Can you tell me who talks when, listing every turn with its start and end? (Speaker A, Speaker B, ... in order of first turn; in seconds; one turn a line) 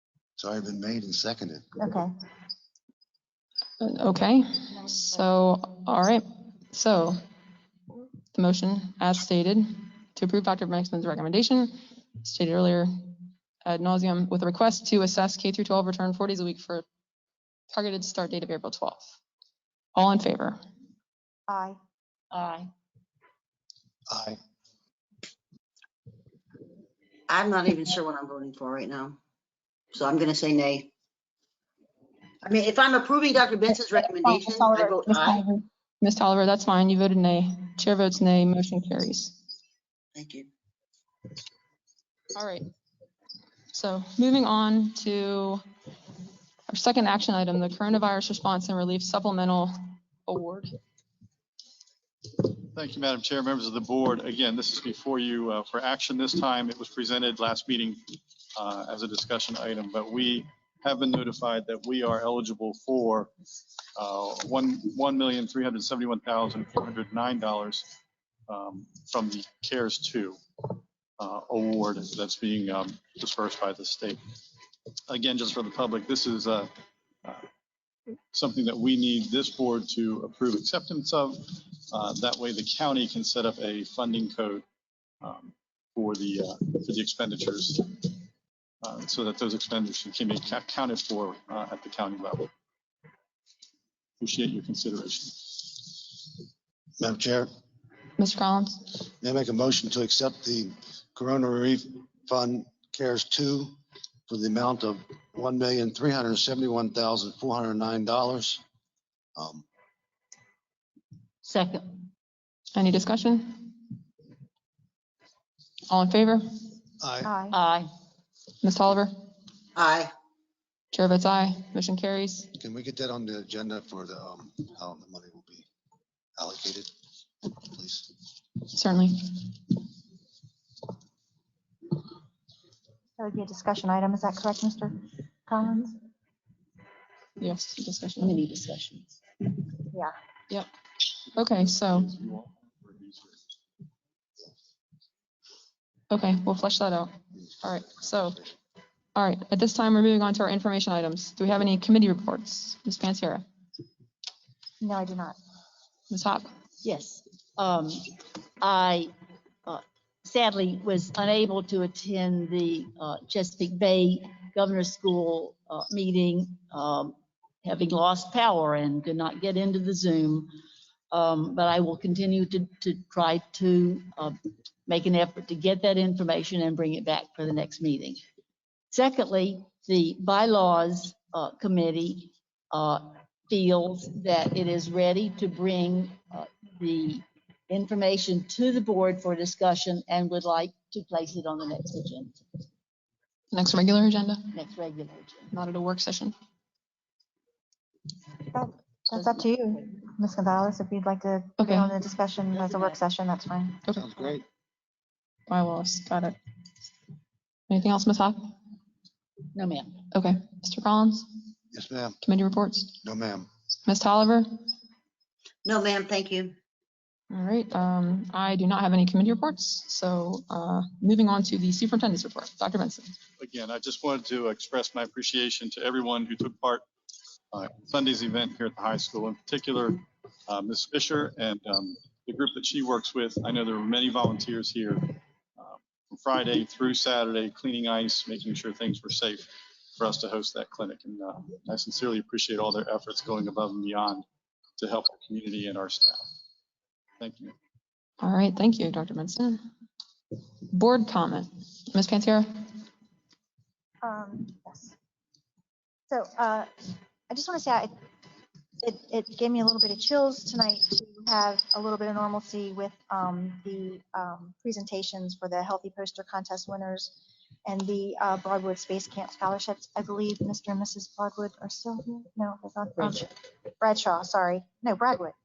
Speaker A: 0.4-1.6
Speaker B: 1.8-2.1
Speaker C: 3.8-7.2
Speaker B: 4.8-5.1
Speaker C: 8.3-12.9
Speaker C: 13.6-16.8
Speaker C: 17.7-19.1
Speaker C: 19.9-20.6
Speaker B: 21.5-21.8
Speaker D: 22.3-22.7
Speaker A: 24.1-24.4
Speaker E: 27.3-29.2
Speaker E: 29.9-30.9
Speaker E: 32.4-35.4
Speaker B: 33.7-35.4
Speaker C: 35.3-39.3
Speaker E: 40.1-40.5
Speaker C: 42.3-42.7
Speaker C: 43.7-45.6
Speaker C: 46.7-49.7
Speaker C: 50.2-50.7
Speaker F: 52.4-63.3
Speaker F: 64.0-67.9
Speaker F: 68.5-74.2
Speaker F: 75.1-76.7
Speaker F: 78.3-84.6
Speaker F: 85.2-88.2
Speaker F: 88.8-92.5
Speaker F: 94.2-96.0
Speaker A: 97.0-97.5
Speaker C: 98.2-98.9
Speaker A: 99.1-103.7
Speaker A: 104.3-108.6
Speaker A: 109.3-109.6
Speaker D: 111.4-112.1
Speaker C: 112.7-114.0
Speaker C: 115.9-116.6
Speaker A: 117.0-117.3
Speaker B: 117.2-117.6
Speaker D: 117.5-117.9
Speaker C: 118.6-119.1
Speaker E: 119.8-120.1
Speaker C: 120.9-122.5
Speaker A: 122.5-125.7
Speaker A: 126.4-126.9
Speaker A: 127.6-128.1
Speaker C: 128.7-129.4
Speaker B: 133.2-134.9
Speaker B: 135.5-135.9
Speaker C: 137.4-138.4
Speaker D: 138.2-139.2
Speaker F: 141.3-143.4
Speaker C: 141.3-142.1
Speaker C: 146.1-148.4
Speaker C: 149.1-153.4
Speaker B: 154.8-155.4
Speaker C: 156.1-156.5
Speaker D: 156.8-159.1
Speaker D: 159.7-170.6
Speaker D: 171.1-178.2
Speaker D: 178.9-192.4
Speaker C: 193.5-194.6
Speaker D: 194.5-195.5
Speaker C: 195.5-196.3
Speaker B: 198.5-203.8
Speaker C: 201.6-202.0
Speaker D: 202.5-202.9
Speaker A: 203.9-204.4
Speaker C: 205.5-206.4
Speaker C: 207.7-208.5
Speaker D: 209.5-210.0
Speaker C: 210.1-211.4
Speaker A: 211.7-212.2
Speaker C: 212.2-212.9
Speaker A: 213.0-213.5
Speaker C: 213.8-214.6
Speaker E: 215.6-216.5
Speaker C: 217.3-223.2
Speaker F: 223.4-226.8
Speaker F: 227.5-244.2
Speaker F: 244.8-246.3
Speaker F: 247.2-247.5
Speaker C: 248.2-249.6
Speaker C: 250.6-252.7
Speaker B: 254.0-254.9
Speaker B: 256.1-256.7
Speaker B: 257.3-257.9
Speaker B: 258.8-267.1
Speaker B: 267.6-275.3